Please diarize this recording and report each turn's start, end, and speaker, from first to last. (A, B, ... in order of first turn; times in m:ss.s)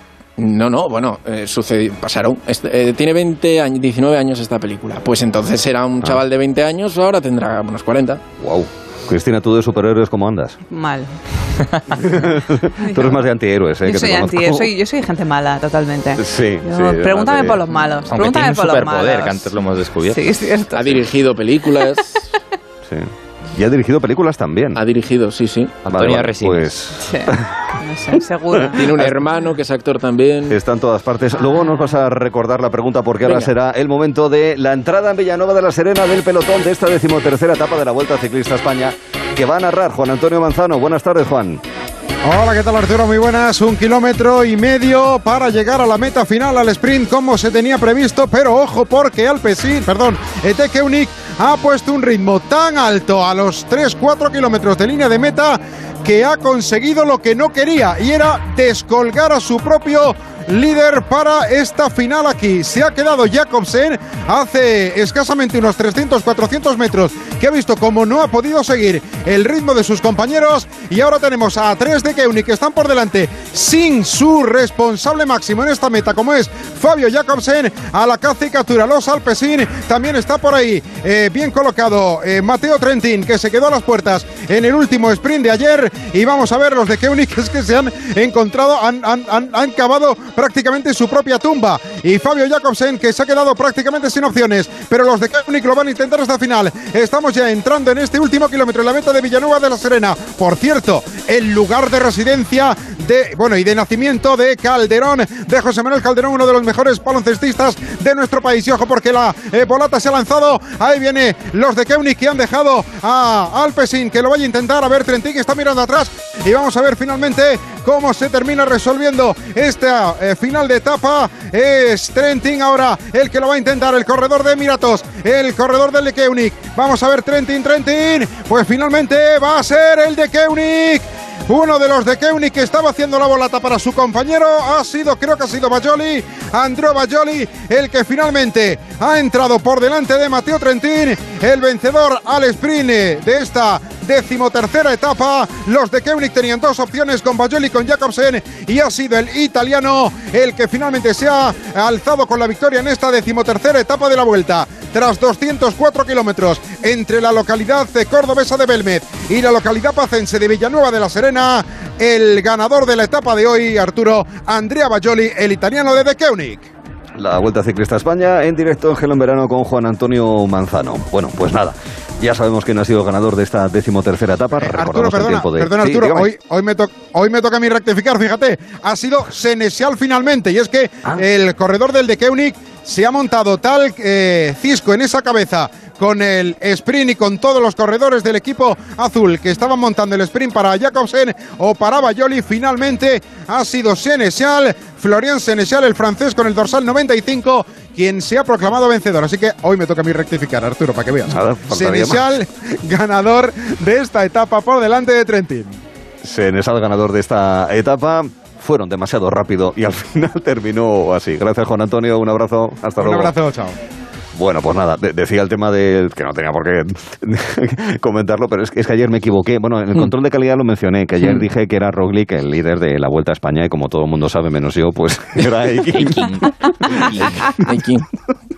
0:00.4-0:08.2 A
0:08.4-0:10.6 B
0:10.7-0:11.1 C
0:12.0-0:14.7 B
0:12.8-0:13.2 C
0:13.9-0:19.4 C
0:16.2-0:17.6 B
0:18.1-0:20.2 D
0:20.1-0:21.0 C
0:20.7-0:22.2 A
0:22.9-0:24.8 B
0:24.8-0:25.8 A
0:25.8-0:27.5 B
0:26.0-0:26.7 D
0:27.0-0:28.9 C
0:28.5-0:29.2 B
0:28.8-0:30.6 A
0:30.5-0:41.6 B
0:42.2-2:46.7 E
2:47.2-2:56.3 B
2:54.6-3:25.8 E
3:21.3-3:22.3 B
3:26.2-3:33.3 B
3:33.0-3:33.8 E
3:34.4-3:47.3 B
3:47.7-3:48.1 A